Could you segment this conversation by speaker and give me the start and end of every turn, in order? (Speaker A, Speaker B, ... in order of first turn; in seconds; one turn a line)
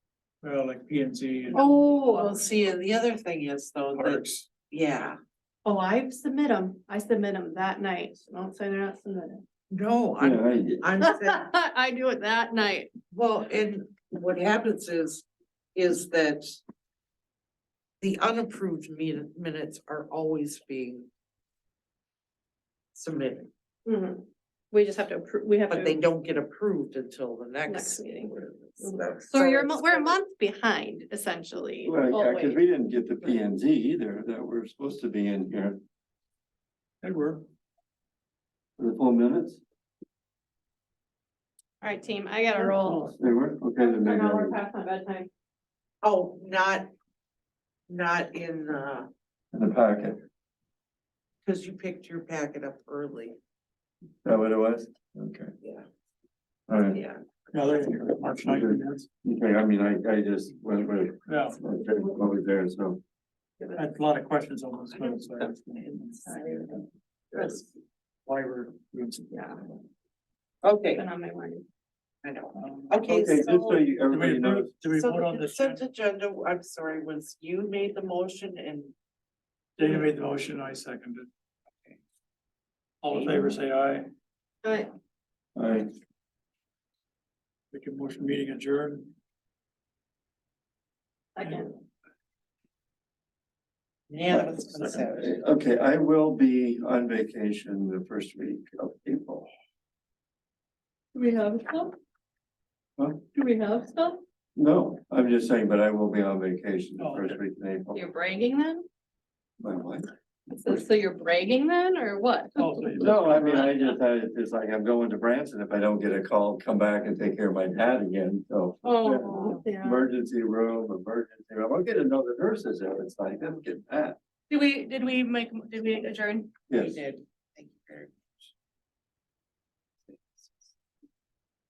Speaker A: 0.4-1.6
Speaker B: 1.5-2.4
Speaker C: 1.5-5.2
Speaker A: 4.0-4.5
Speaker B: 5.6-9.4
Speaker C: 9.7-11.4
Speaker D: 10.2-10.8
Speaker B: 11.0-12.9
Speaker C: 13.1-16.6
Speaker C: 18.0-21.1
Speaker C: 22.9-23.5
Speaker B: 23.9-26.0
Speaker C: 25.7-30.1
Speaker B: 27.7-32.6
Speaker D: 31.8-35.8
Speaker A: 37.0-37.4
Speaker D: 38.8-39.6
Speaker B: 41.8-43.1
Speaker D: 42.9-44.6
Speaker B: 43.8-45.3
Speaker C: 46.0-46.9
Speaker C: 47.9-49.1
Speaker D: 49.5-50.2
Speaker C: 51.4-53.4
Speaker D: 54.2-55.5
Speaker C: 55.6-55.9
Speaker D: 56.7-57.0
Speaker C: 56.8-57.9
Speaker A: 57.5-59.1
Speaker D: 58.4-63.0
Speaker A: 61.2-61.6
Speaker A: 63.8-66.8
Speaker C: 65.1-65.5
Speaker B: 66.3-66.7
Speaker C: 66.3-66.7
Speaker A: 67.3-67.6
Speaker A: 68.2-69.4
Speaker B: 69.3-69.6
Speaker C: 70.6-71.0
Speaker B: 71.0-71.6
Speaker C: 72.2-73.8
Speaker A: 72.5-73.0
Speaker D: 73.0-74.7
Speaker A: 74.1-75.8
Speaker C: 74.9-78.9
Speaker A: 79.8-81.3
Speaker A: 83.0-84.1
Speaker C: 83.1-83.5
Speaker B: 84.6-84.9
Speaker D: 85.5-85.9
Speaker A: 87.7-89.1
Speaker B: 91.3-91.7
Speaker C: 94.1-95.4
Speaker A: 94.3-95.0
Speaker D: 95.1-99.5
Speaker B: 101.1-101.9
Speaker B: 103.3-104.2
Speaker D: 104.5-108.0
Speaker A: 107.0-107.4
Speaker B: 107.9-108.8
Speaker D: 109.6-110.1
Speaker B: 110.5-112.8
Speaker A: 112.5-113.7
Speaker D: 113.0-124.2
Speaker B: 118.8-120.0
Speaker B: 124.5-126.5
Speaker D: 126.7-127.0
Speaker C: 126.7-128.5
Speaker C: 130.1-130.7